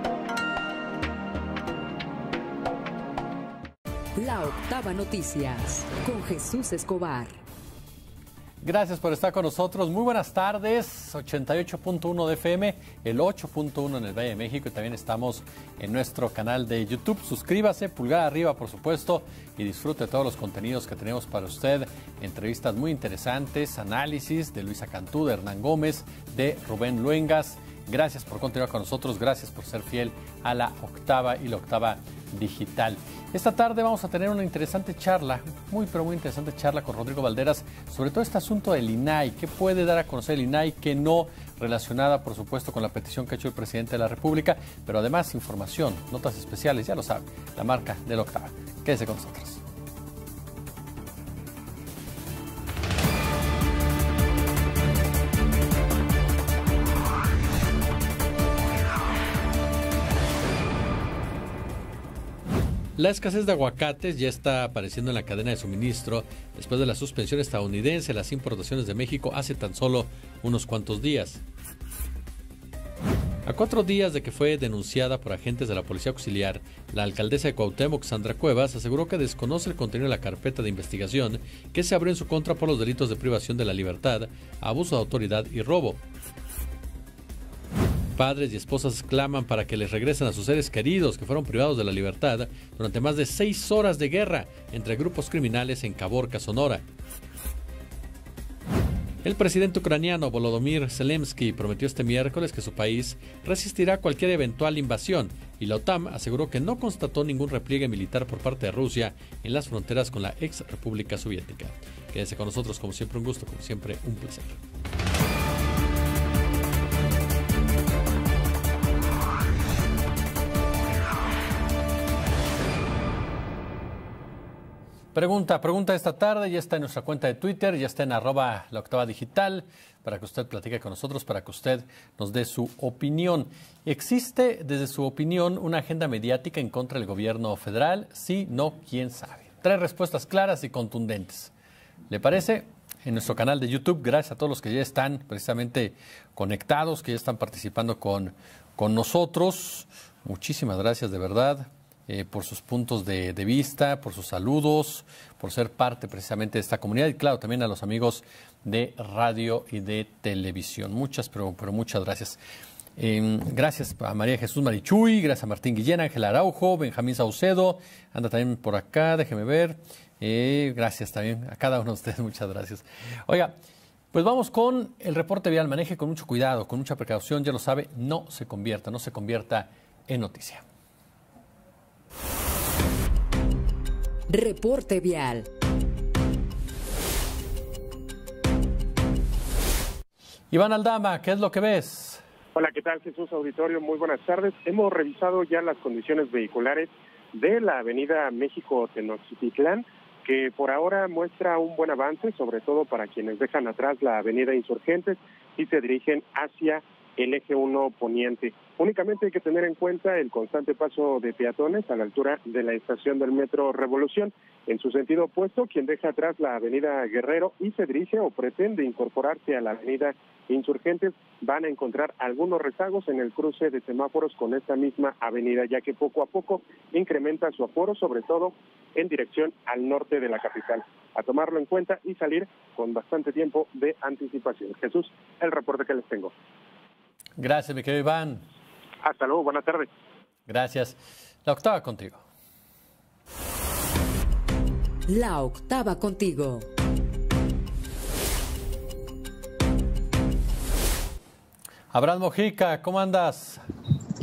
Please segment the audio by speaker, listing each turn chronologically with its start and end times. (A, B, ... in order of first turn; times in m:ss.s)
0:04.2-0:07.4 A
0:08.6-0:49.6 B
1:03.0-1:11.4 B
1:13.4-1:26.0 B
1:28.2-1:36.8 B
1:39.2-1:54.6 B
2:05.1-2:21.5 B
2:22.1-2:42.4 B
2:43.0-2:53.5 B
2:54.1-3:00.6 B
3:04.3-3:05.5 A
3:10.5-3:12.2 B
3:12.5-3:56.3 C
3:57.4-3:58.4 B
3:59.0-3:59.9 C
4:00.5-4:02.2 B
4:05.1-4:06.7 A
4:11.9-4:13.6 B